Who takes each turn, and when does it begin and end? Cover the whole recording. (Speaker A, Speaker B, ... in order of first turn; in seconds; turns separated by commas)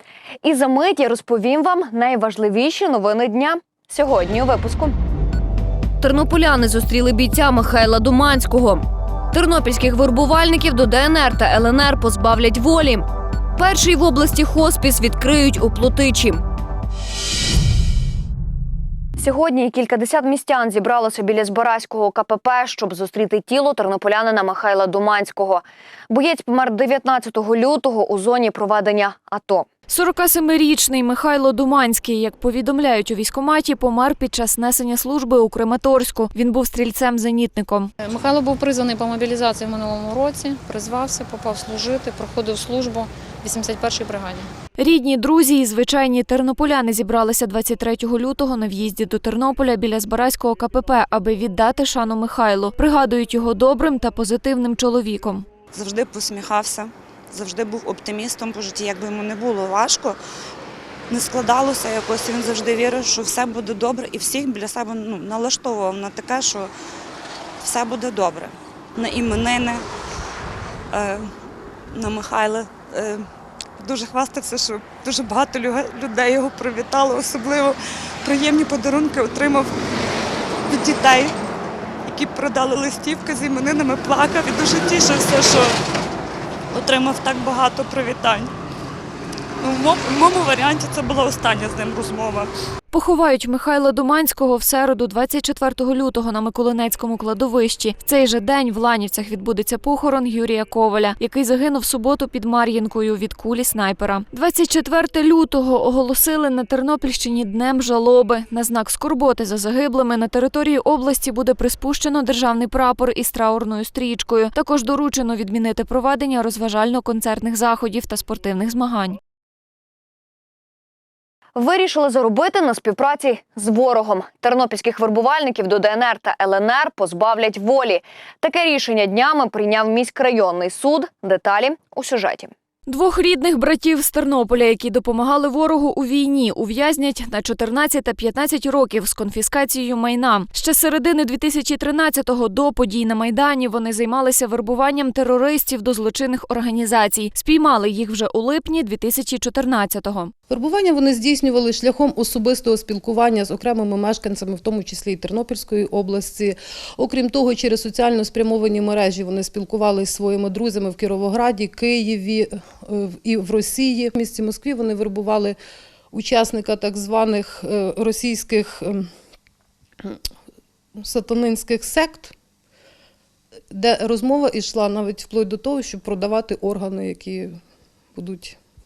Speaker A: 0.4-4.9, Speaker A: 6.0-13.0, Speaker A: 13.6-16.4, Speaker A: 19.2-29.6, Speaker B: 29.9-37.9, Speaker C: 38.0-44.5, Speaker B: 44.8-55.5, Speaker D: 55.7-60.2, Speaker D: 61.1-66.7, Speaker D: 67.6-69.8, Speaker D: 70.9-71.3, Speaker D: 71.9-73.2, Speaker D: 73.8-79.8, Speaker D: 80.7-81.3, Speaker D: 82.0-85.7, Speaker D: 86.7-88.5, Speaker D: 89.6-92.5, Speaker B: 92.9-119.2, Speaker A: 121.5-132.5, Speaker B: 132.9-150.3, Speaker E: 150.5-165.6, Speaker E: 166.1-169.1, Speaker E: 171.0-172.3, Speaker E: 173.7-177.6, Speaker E: 178.1-178.6